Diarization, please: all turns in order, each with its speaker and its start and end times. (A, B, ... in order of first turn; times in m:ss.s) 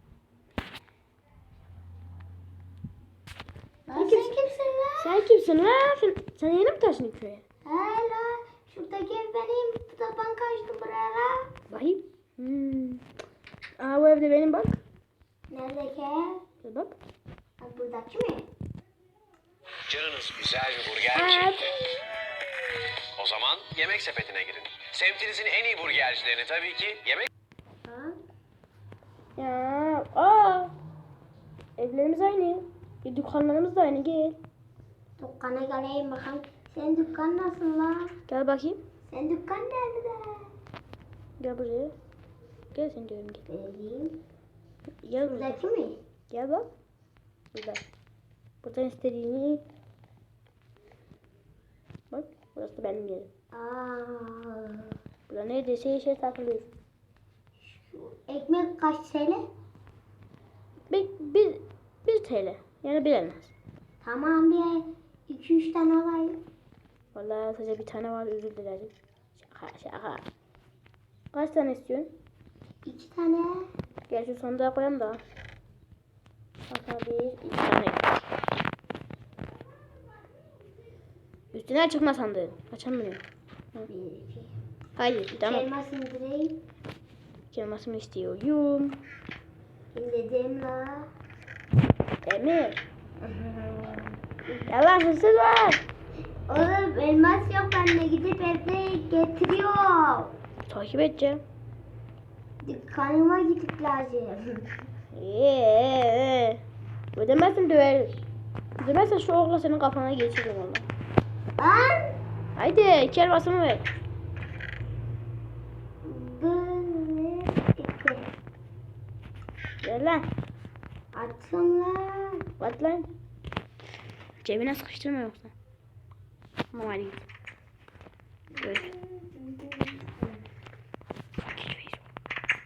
0:03.9-0:05.2 A
0:03.9-0:04.3 B
0:05.0-0:07.4 B
0:07.6-0:11.5 A
0:11.7-0:13.0 B
0:13.8-0:14.8 B
0:15.5-0:16.4 A
0:16.6-0:16.9 B
0:17.6-0:18.5 A
0:19.9-0:21.4 C
0:21.1-0:22.0 B
0:23.2-0:27.2 C
0:27.8-0:28.2 A
0:29.4-0:30.7 B
0:31.8-0:34.4 B
0:35.2-0:38.1 A
0:38.3-0:38.8 B
0:39.1-0:40.5 A
0:41.4-0:41.9 B
0:42.7-0:43.4 B
0:43.5-0:44.2 A
0:45.0-0:45.6 B
0:45.3-0:46.0 A
0:46.3-0:46.7 B
0:47.5-0:47.8 B
0:48.6-0:49.6 B
0:52.1-0:53.3 B
0:53.5-0:54.9 A
0:55.3-0:56.7 B
0:57.6-0:59.4 A
1:00.9-1:03.5 B
1:04.0-1:06.4 A
1:07.1-1:10.2 B
1:11.3-1:12.1 B
1:12.8-1:13.7 A
1:14.1-1:15.2 B
1:16.7-1:18.2 B
1:21.5-1:23.2 B
1:23.9-1:24.5 A
1:25.0-1:25.7 B
1:25.3-1:26.6 A
1:27.5-1:29.0 B
1:29.9-1:31.1 A
1:32.2-1:32.8 B
1:33.2-1:34.2 A
1:34.5-1:35.8 B
1:36.5-1:40.3 A
1:40.7-1:41.4 B
1:42.6-1:44.6 A
1:45.1-1:46.6 B
1:47.2-1:48.2 B
1:48.8-1:50.8 B
1:51.6-1:52.1 A
1:52.6-1:53.9 B
1:56.0-1:58.3 A
1:59.8-2:00.3 B
2:01.1-2:02.4 A
2:02.6-2:03.1 B
2:04.4-2:05.5 B
2:06.7-2:07.3 B
2:08.5-2:10.4 A
2:08.6-2:08.9 B
2:11.4-2:12.0 B